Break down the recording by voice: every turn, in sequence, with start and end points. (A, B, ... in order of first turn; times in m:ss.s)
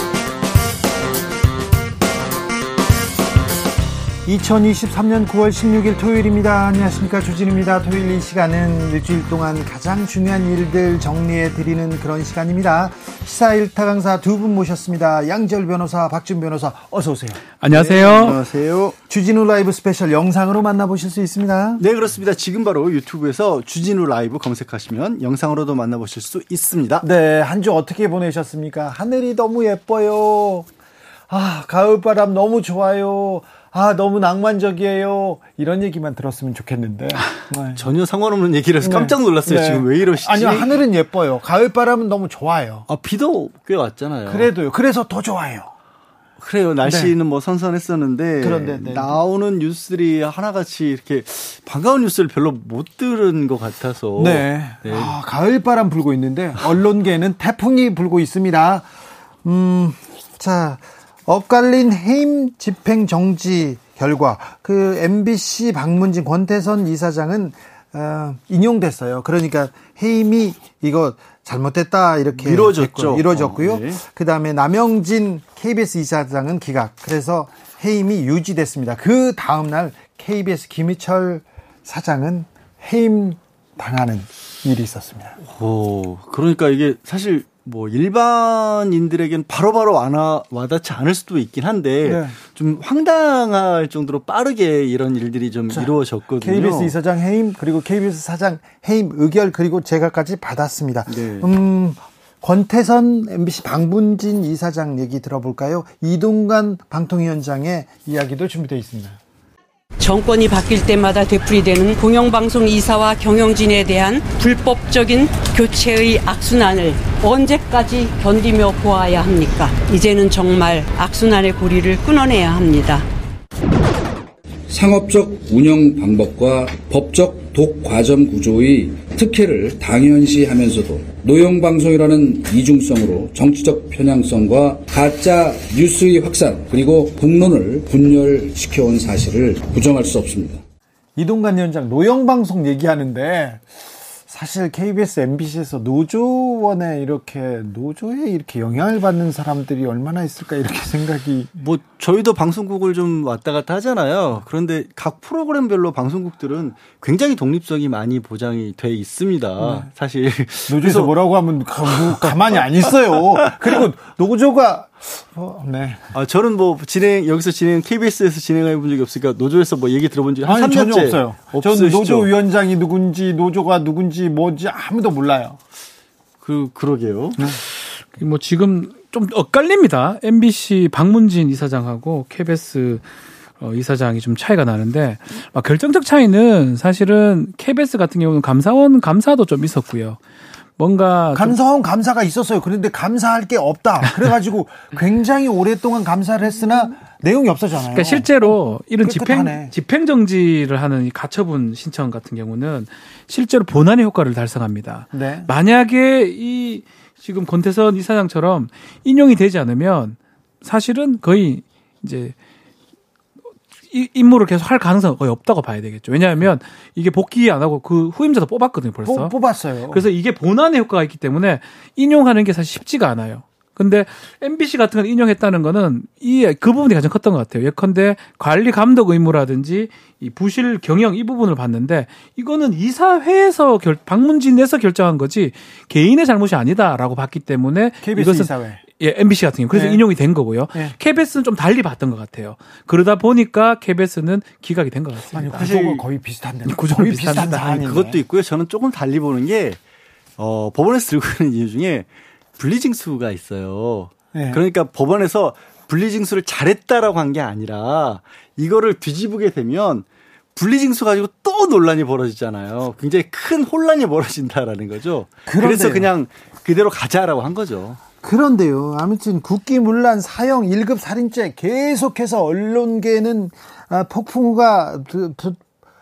0:04.2-0:18.4 A
0:17.6-0:18.4 B
0:17.7-0:19.0 C
0:19.1-0:21.8 A
0:21.8-0:27.1 C
0:27.0-0:30.7 A
0:31.3-0:37.9 A
0:37.8-0:40.8 C
0:38.8-0:42.9 A
0:42.9-0:44.5 C
0:44.3-0:45.7 A
0:46.4-0:55.1 C
0:46.8-0:47.2 A
0:48.4-0:49.2 A
0:54.2-0:58.9 A
0:59.4-1:25.4 A
1:12.4-1:14.0 C
1:25.4-1:36.9 C
1:32.0-1:32.4 A
1:35.7-1:49.2 A
1:41.1-1:41.5 C
1:50.0-2:03.1 D
2:04.7-2:20.6 E
2:21.2-2:23.6 A
2:24.3-2:31.5 A
2:31.6-2:41.1 C
2:39.6-2:39.9 A
2:40.7-2:46.1 A
2:41.8-2:43.8 C
2:46.1-2:52.3 C
2:50.4-2:55.6 A
2:56.4-2:57.4 C
2:57.6-3:03.0 B
3:03.6-3:10.2 B
3:10.8-3:11.6 B
3:11.4-3:19.7 A
3:17.9-3:32.4 B
3:25.1-3:25.5 A
3:33.9-3:39.3 B
3:39.0-3:40.1 A
3:39.9-4:05.7 B
3:58.0-3:58.8 A
3:59.7-4:00.0 A
4:05.3-4:08.2 A
4:05.6-4:06.0 C
4:06.7-4:07.8 B
4:07.3-4:09.8 C
4:10.4-4:28.0 C
4:14.3-4:14.6 A
4:25.5-4:26.1 A
4:28.2-4:35.6 A